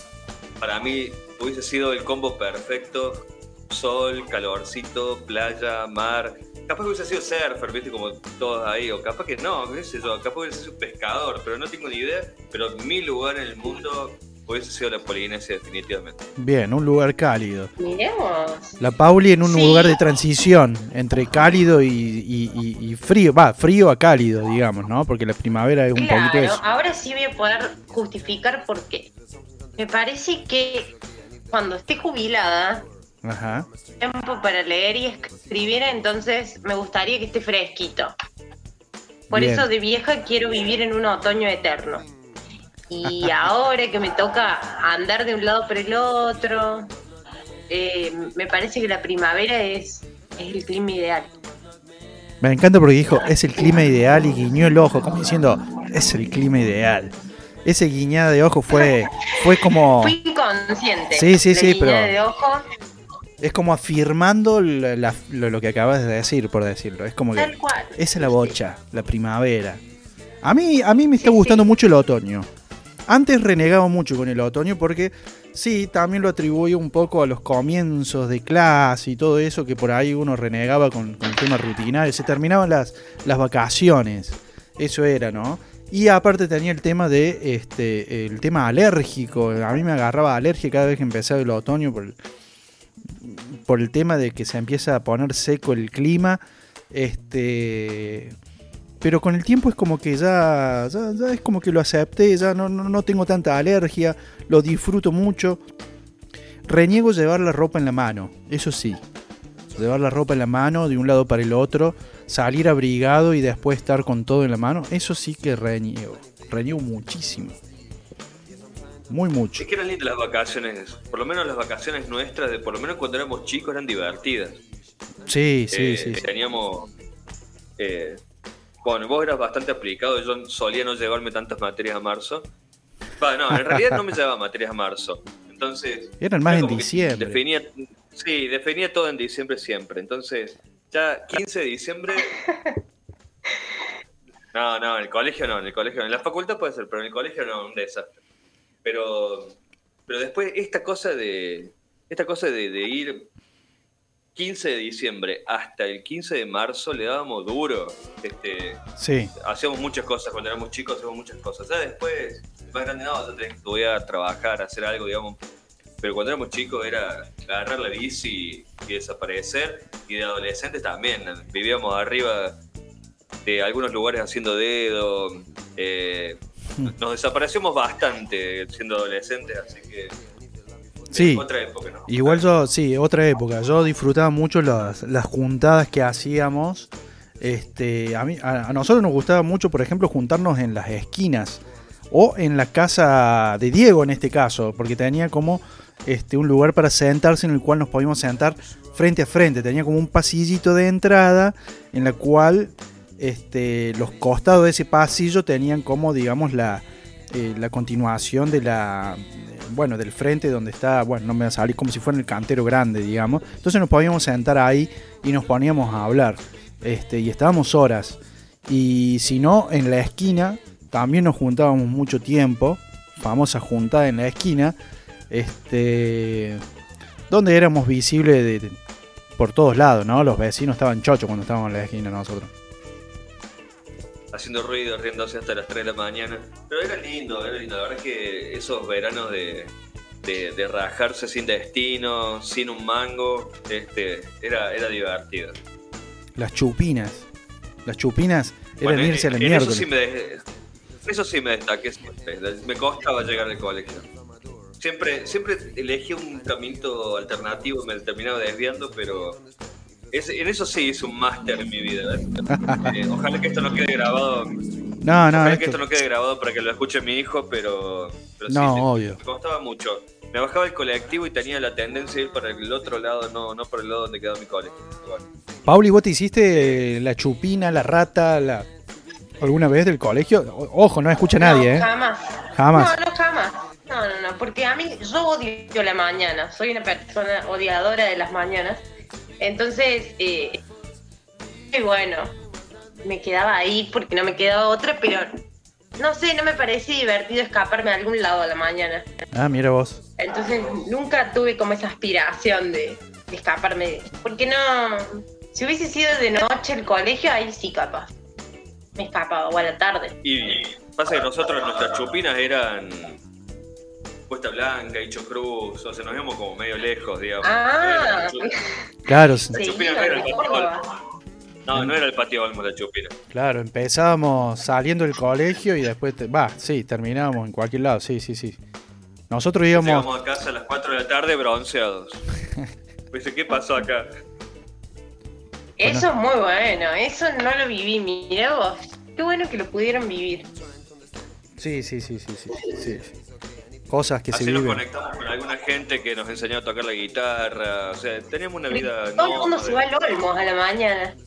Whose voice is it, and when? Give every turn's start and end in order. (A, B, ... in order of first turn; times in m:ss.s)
0:00.6-0:16.2 A
0:16.4-0:17.7 B
0:17.8-0:18.8 C
0:18.8-0:26.6 B
0:19.4-0:20.0 C
0:26.0-0:29.1 C
0:29.8-0:30.9 C
0:31.5-0:32.9 C
0:33.2-0:33.7 B
0:34.0-0:38.1 C
0:39.3-0:39.7 B
0:39.3-0:42.1 C
0:42.9-0:46.9 C
0:43.0-0:43.4 B
0:47.7-0:51.3 C
0:52.4-0:57.1 B
0:57.6-1:00.2 B
0:59.9-1:02.6 C
1:01.1-1:02.1 B
1:03.4-1:09.8 B
1:07.4-1:08.6 C
1:10.4-1:12.5 B
1:11.2-1:11.6 C
1:13.1-1:32.2 B
1:33.2-1:38.4 B
1:39.0-1:45.6 B
1:46.7-1:49.0 B
1:49.8-1:57.6 B
1:59.1-1:59.7 B
1:59.6-2:04.6 A
2:05.3-2:06.2 B
2:05.7-2:06.9 A
2:07.8-2:08.2 A
2:08.8-2:12.5 A
2:13.2-2:22.4 A
2:13.5-2:14.0 B
2:16.2-2:17.4 B
2:24.5-2:28.2 A
2:28.8-2:29.6 A
2:30.1-2:33.3 A
2:34.4-2:38.8 A
2:39.0-2:39.3 B
2:39.4-2:45.4 A
2:46.0-2:52.6 A
2:53.4-3:00.2 A
3:01.1-3:01.4 B
3:01.1-3:02.4 A
3:02.1-3:06.9 B
3:07.4-3:44.8 B
3:45.3-3:46.6 B
3:47.3-3:48.8 B
3:49.4-3:52.5 B
3:54.3-3:59.7 A
4:00.2-4:05.6 A
4:06.4-4:07.3 B
4:07.8-4:09.9 B
4:08.8-4:10.4 A
4:11.0-4:14.1 A
4:14.8-4:19.4 A
4:20.1-4:24.6 A
4:22.5-4:23.0 B
4:25.0-4:25.8 B
4:25.3-4:35.2 A
4:28.5-4:29.2 B
4:35.6-4:38.7 B
4:36.5-4:36.8 A
4:39.4-4:41.9 B
4:41.4-4:48.8 C
4:42.6-4:43.0 B
4:49.4-4:50.6 C
4:51.7-4:52.3 C
4:53.0-4:55.4 C
4:56.0-4:59.1 C
4:59.3-5:00.0 B
5:00.2-5:08.1 C
5:09.0-5:10.2 C
5:10.2-5:13.2 A
5:14.3-5:18.5 A
5:17.4-5:18.6 C
5:19.1-5:19.6 B
5:19.5-5:20.8 C
5:19.5-5:20.7 A
5:21.6-5:23.2 A
5:23.3-5:28.6 B
5:29.3-5:30.1 B
5:29.7-5:32.2 A
5:33.1-5:34.1 A
5:35.8-5:40.5 C
5:41.6-5:43.1 B
5:43.9-5:44.8 B
5:44.3-5:49.8 A
5:48.7-5:51.1 C